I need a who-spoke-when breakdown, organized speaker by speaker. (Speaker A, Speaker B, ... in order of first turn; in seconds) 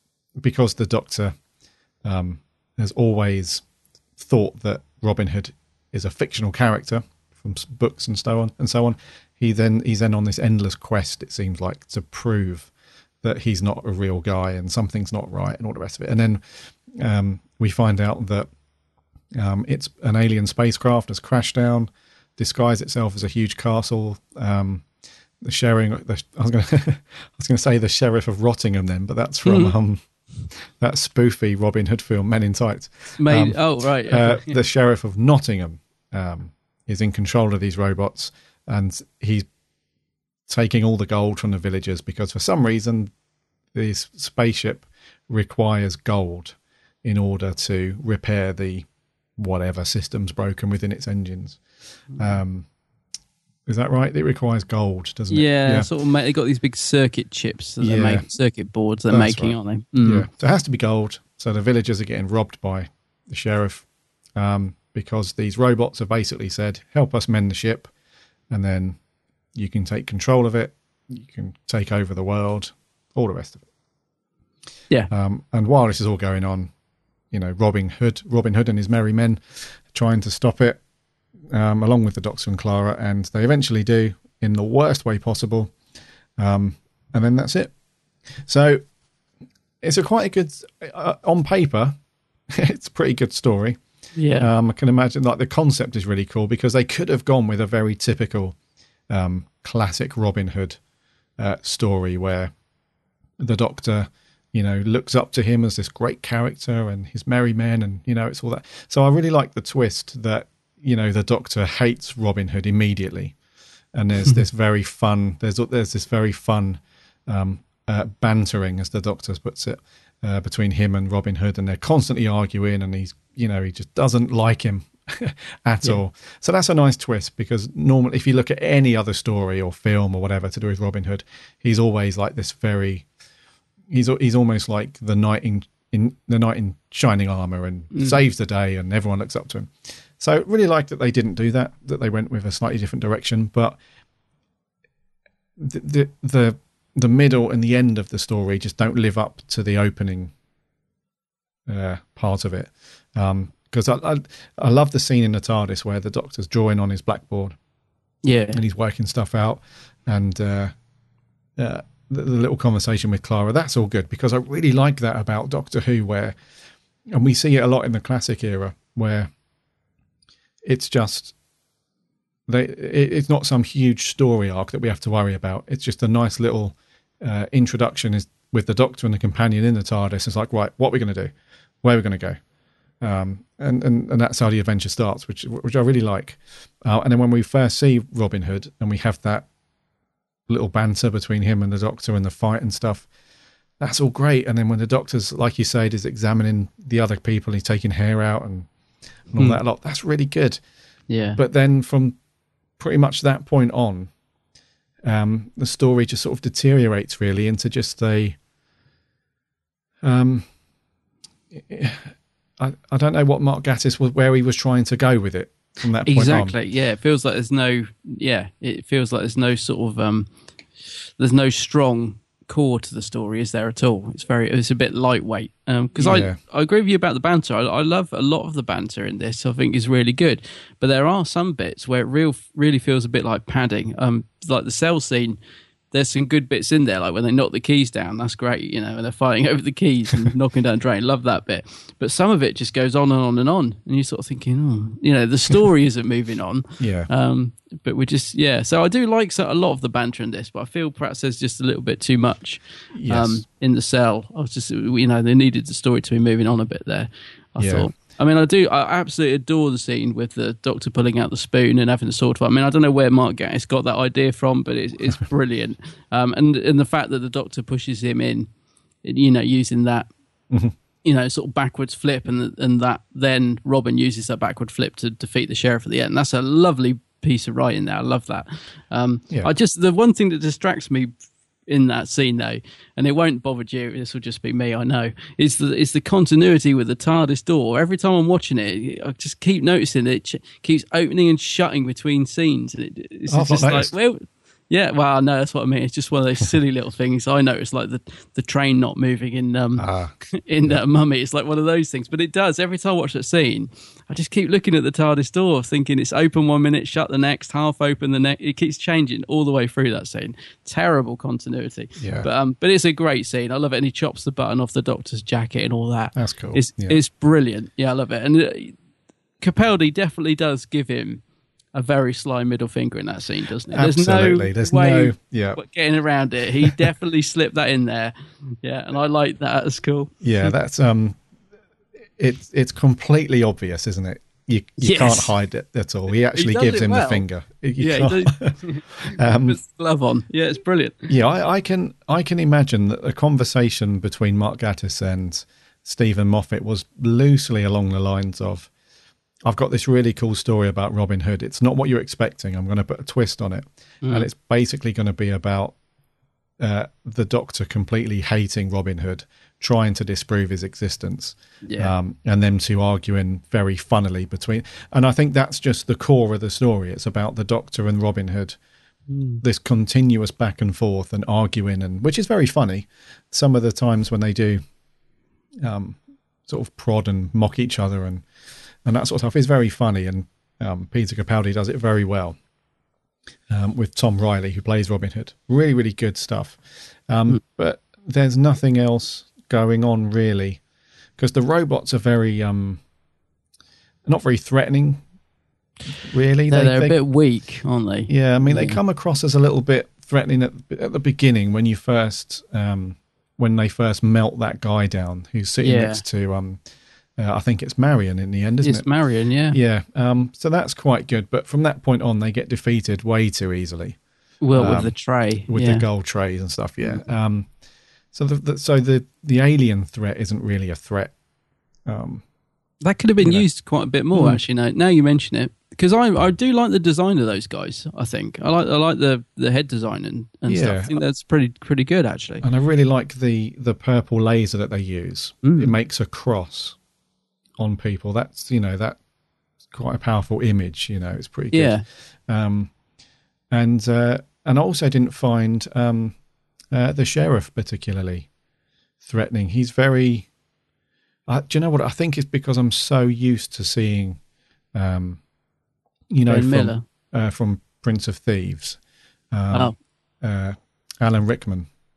Speaker A: 0.4-1.4, 2.0-3.6, 4.2-12.7, 13.2-18.5, 19.3-24.9, 25.4-39.5, 40.5-43.1, 43.7-51.6, 52.2-52.7, 53.7-55.9, 57.8-58.3, 59.1-67.9, 68.5-69.0, 69.5-73.6, 75.1-76.7, 77.3-80.8, 81.5-85.7, 86.4-87.7, 88.5-88.8, 89.8-92.0, 92.5-93.8, 94.3-98.6, 99.1-100.8, 101.4-102.5, 103.4-113.4, 113.9-133.1, 133.9-143.8, 145.6-150.3, 151.7-157.6, 158.5-160.7, 161.6-166.4, 167.1-169.3, 170.6-171.3, 172.5-181.3, 181.8-182.4, 183.0-189.5, 190.5-193.1, 193.8-198.7, 199.3-200.6, 201.3-202.2, 202.8-204.1, 205.0-208.4, 210.0-210.5, 211.5-216.6, 226.0-226.4, 246.8-247.1, 252.9-253.4, 257.6-257.9, 293.3-293.9, 299.8-300.1, 312.0-312.3, 316.1-317.0, 323.7-325.6, 330.2-331.2, 332.2-339.6, 341.1-348.7, 349.4-355.8, 356.6-368.6, 369.4-374.6, 375.6-378.2, 378.9-382.4, 383.5-390.6, 391.2-392.8, 394.1-395.0, 396.0-397.0, 398.1-406.6, 407.2-408.9, 409.5-414.0, 414.5-417.5, 418.1-421.1, 421.9-422.2, 423.2-423.5, 424.1-424.4, 430.5-431.0, 432.4-436.8, 437.6-439.0, 439.7-442.7, 443.5-446.2, 446.7-448.3, 449.0-450.3, 451.3-454.2, 454.7-455.2, 456.1-458.8, 459.3-461.7
Speaker B: 29.4-29.7, 33.2-34.6, 55.3-60.3, 94.2-94.5, 137.9-138.2, 158.2-158.6, 201.1-201.4, 216.1-220.3, 221.2-235.4, 235.9-268.5, 269.0-270.1, 271.0-281.1, 281.7-318.8, 319.4-321.2, 321.7-330.5, 334.8-335.3, 336.3-337.2, 337.8-341.1, 354.0-354.3, 361.6-361.9, 369.1-369.4, 396.5-398.8, 405.6-406.0, 408.6-409.6, 414.4-415.9, 422.8-432.4, 435.4-435.7, 441.5-441.8, 456.3-456.9